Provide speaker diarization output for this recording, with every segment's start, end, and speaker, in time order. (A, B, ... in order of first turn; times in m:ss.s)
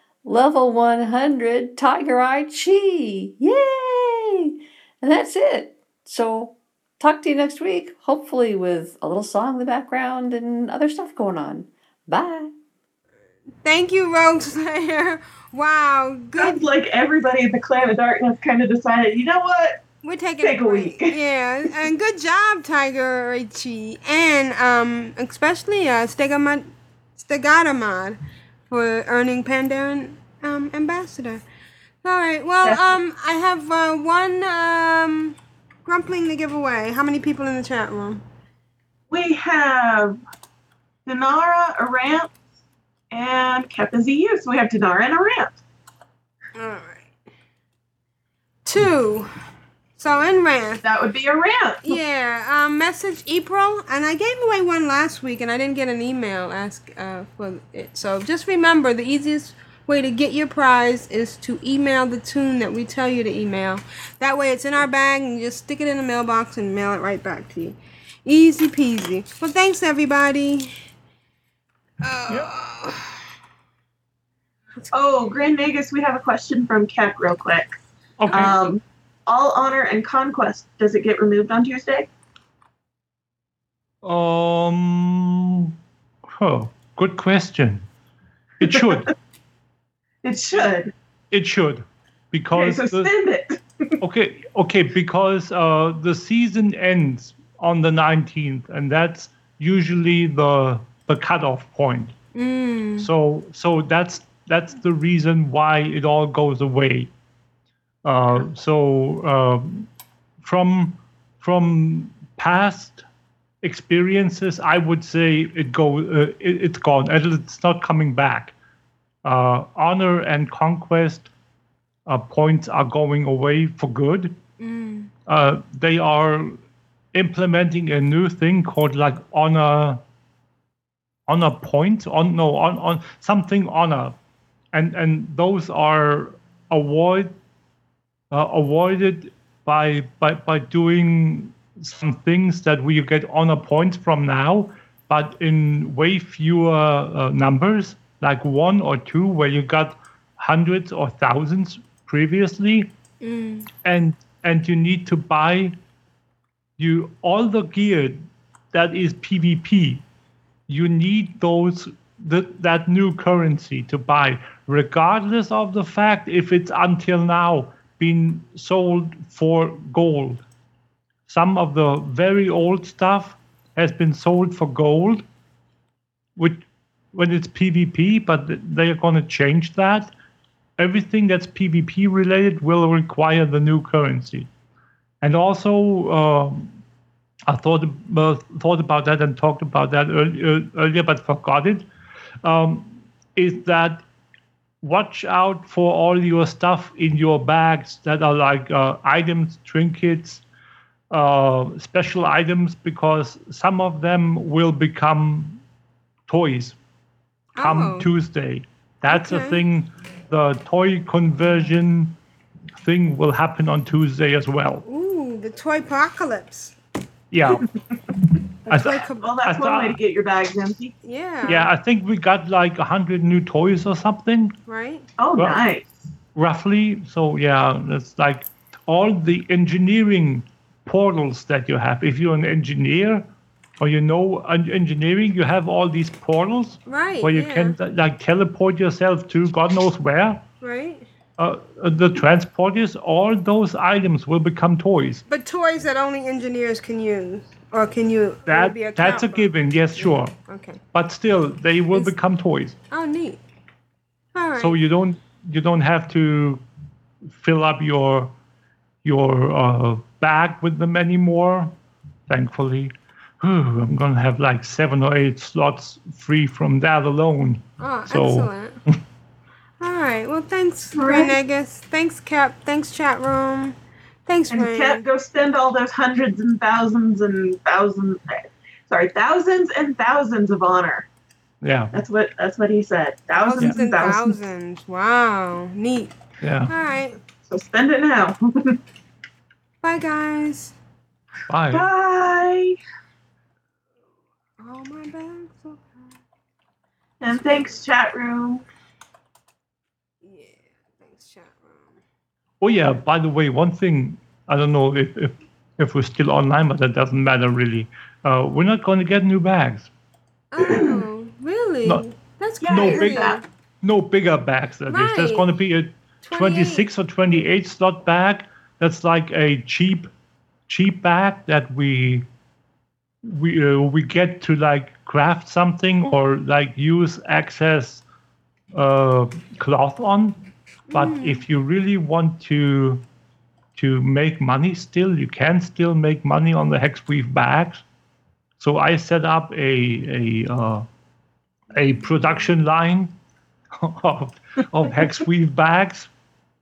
0:00.2-0:12.5 A
0:13.6-0:16.6 B
0:16.4-0:19.8 C
0:20.0-0:31.4 B
0:20.4-0:21.1 C
0:32.0-0:38.2 B
0:39.1-0:40.2 C
0:41.0-0:42.3 C
0:43.1-0:45.5 C
0:46.6-0:47.1 B
0:48.6-0:49.3 B
0:50.0-0:50.8 B
0:50.8-0:52.0 C
0:51.8-1:10.7 B
1:12.0-1:13.1 B
1:14.9-1:17.7 C
1:18.2-1:18.6 D
1:18.3-1:22.1 C
1:24.0-1:25.7 D
1:26.3-1:27.8 D
1:28.6-1:29.1 D
1:28.6-1:29.1 C
1:30.2-1:30.9 C
1:31.3-1:33.1 D
1:32.5-1:33.6 C
1:34.0-1:42.1 D
1:42.3-1:43.1 B
1:43.0-1:47.1 D
1:48.0-1:49.9 D
1:50.4-1:53.0 D
1:53.6-1:58.5 D
1:59.2-2:01.3 D
2:02.1-2:04.4 D
2:04.6-2:05.1 B
2:05.3-2:06.6 D
2:07.1-2:10.0 D
2:11.3-2:14.2 D
2:14.7-2:17.3 D
2:18.3-2:32.9 D
2:33.2-2:33.7 B
2:33.8-2:35.7 D
2:36.8-2:40.0 D
2:40.7-2:50.4 D
2:51.3-2:55.2 D
2:56.4-3:00.1 D
3:00.8-3:04.5 D
3:05.2-3:06.7 D
3:07.5-3:11.9 D
3:12.4-3:14.0 D
3:14.8-3:20.4 D
3:21.1-3:25.6 D
3:26.3-3:26.8 D
3:27.5-3:28.1 B
3:27.6-3:32.1 D
3:29.1-3:29.6 B
3:32.8-3:34.8 D
3:34.8-3:36.8 B
3:37.3-3:37.6 D
3:38.6-3:40.9 C
3:38.7-3:40.0 D
3:38.7-3:39.3 B
3:41.0-3:41.7 B
3:41.4-3:44.5 D
3:44.7-3:45.1 B
3:45.2-3:46.0 C
3:45.4-3:45.6 D
3:46.3-3:53.2 D
3:53.8-4:00.4 D
3:56.8-3:57.8 B
4:00.6-4:01.1 B
4:01.4-4:05.2 D
4:05.3-4:10.8 B
4:08.5-4:10.3 D
4:10.9-4:12.7 D
4:12.9-4:13.4 B
4:14.3-4:14.8 B
4:14.6-4:16.6 D
4:17.4-4:18.3 D
4:19.0-4:21.7 D
4:22.3-4:29.0 D
4:27.8-4:28.8 B
4:29.8-4:35.0 B
4:30.9-4:31.3 C
4:34.5-4:41.1 C
4:41.6-4:41.9 D
4:41.9-4:44.3 C
4:43.3-4:46.1 B
4:43.6-4:44.2 D
4:46.4-4:46.7 D
4:46.7-4:47.2 B
4:47.5-4:48.8 C
4:49.8-4:50.7 B
4:51.5-4:51.9 D
4:51.7-4:52.8 C
4:54.6-4:56.1 B
4:57.2-4:58.6 C
4:57.3-4:57.8 B
5:00.2-5:02.0 B
5:02.6-5:09.9 D
5:10.5-5:13.4 B
5:10.6-5:11.0 C
5:12.6-5:13.4 C
5:12.7-5:20.1 D
5:14.9-5:15.5 B
5:16.2-5:16.9 B
5:20.7-5:22.2 D
5:23.2-5:28.0 D
5:28.7-5:30.4 D
5:30.9-5:31.4 B
5:30.9-5:33.0 D
5:33.8-5:37.8 D
5:38.6-5:40.8 D
5:41.7-5:43.2 D
5:43.7-5:46.1 D